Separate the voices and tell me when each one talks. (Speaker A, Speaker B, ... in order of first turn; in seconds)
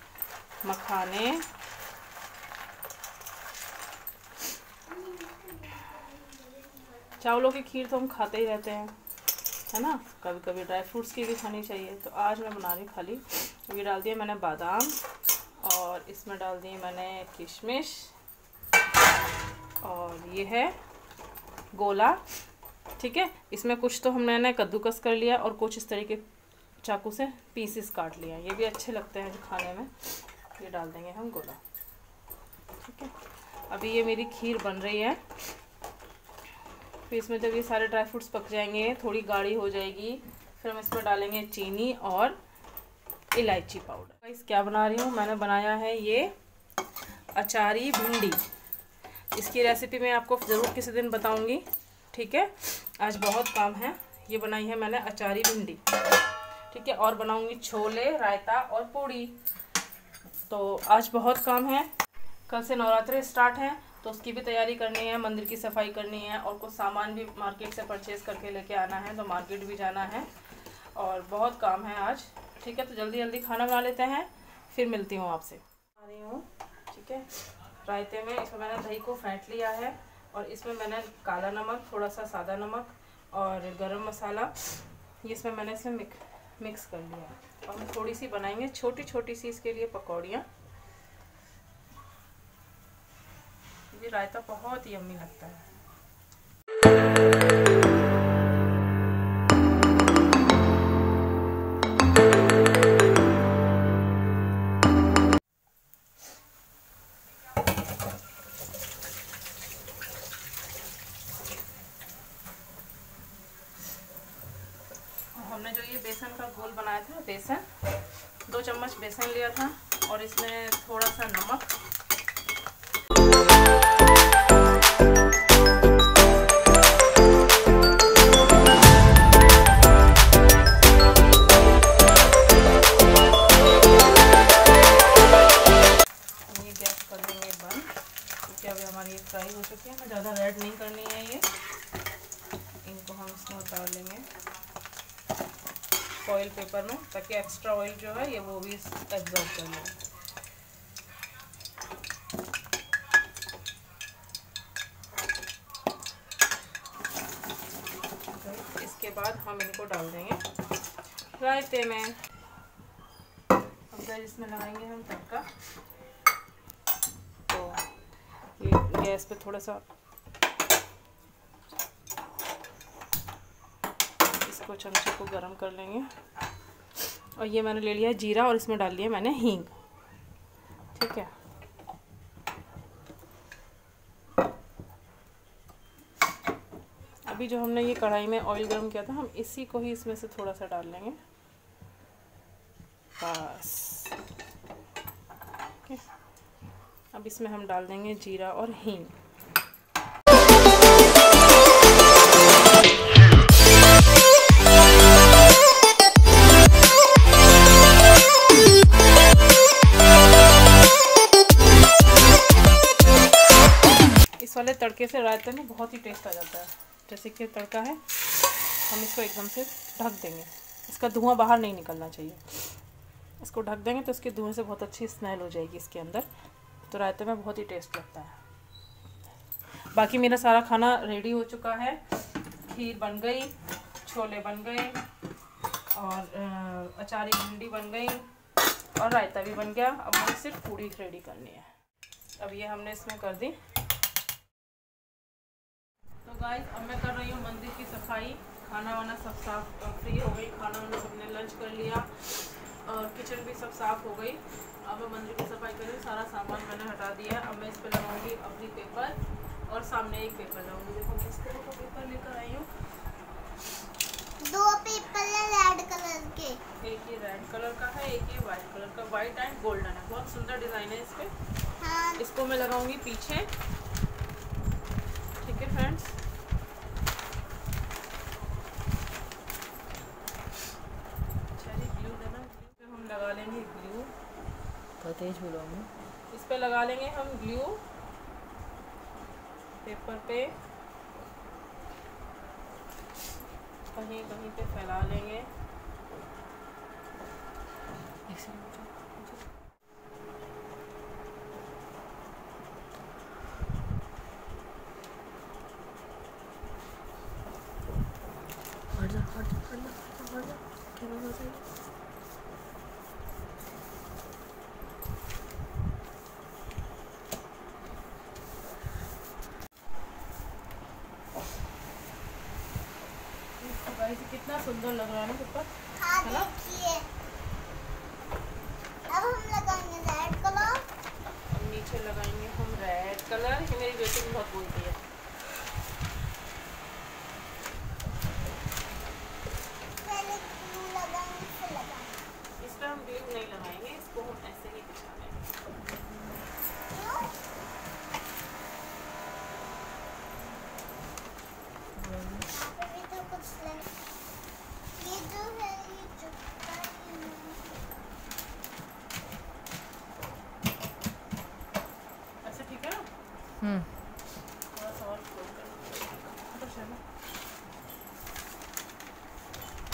Speaker A: 0.6-1.4, 7.2-8.9, 9.7-15.0, 15.6-18.1, 19.8-20.8, 21.7-22.2, 23.0-26.2, 26.8-31.6, 32.8-33.1, 33.7-35.2, 37.1-42.4, 43.3-46.3, 47.3-48.4, 49.3-55.8, 56.7-59.4, 60.5-61.9, 62.5-70.3, 70.9-90.5, 93.9-95.7, 115.3-117.7, 118.5-121.7, 136.5-137.9, 138.4-141.5, 142.8-144.3, 146.2-149.9, 158.3-160.4, 161.4-162.2, 163.9-165.5, 167.5-167.8, 168.6-169.8, 174.4-176.1, 177.1-179.7, 180.9-181.3, 187.3-191.2, 193.2-194.1, 197.1-199.1, 214.4-222.7, 223.4-226.3, 226.9-228.4, 229.9-232.0, 232.7-235.0, 235.9-238.3, 238.9-241.7, 242.4-243.6, 246.2-262.7, 266.8-271.3, 272.2-273.5, 275.4-276.2, 281.5-284.1, 286.3-287.8, 289.8-290.5, 293.9-295.5, 323.6-326.5, 331.5-335.0, 342.6-345.4, 362.4-363.1, 364.7-367.0
Speaker B: 4.9-6.7, 264.4-266.6, 271.8-272.2, 326.0-327.1, 329.1-330.8, 340.0-342.2, 346.9-347.4, 352.5-353.9, 354.9-357.7
Speaker C: 285.0-285.9, 298.3-299.4, 308.9-311.6, 351.9-352.5, 363.6-363.9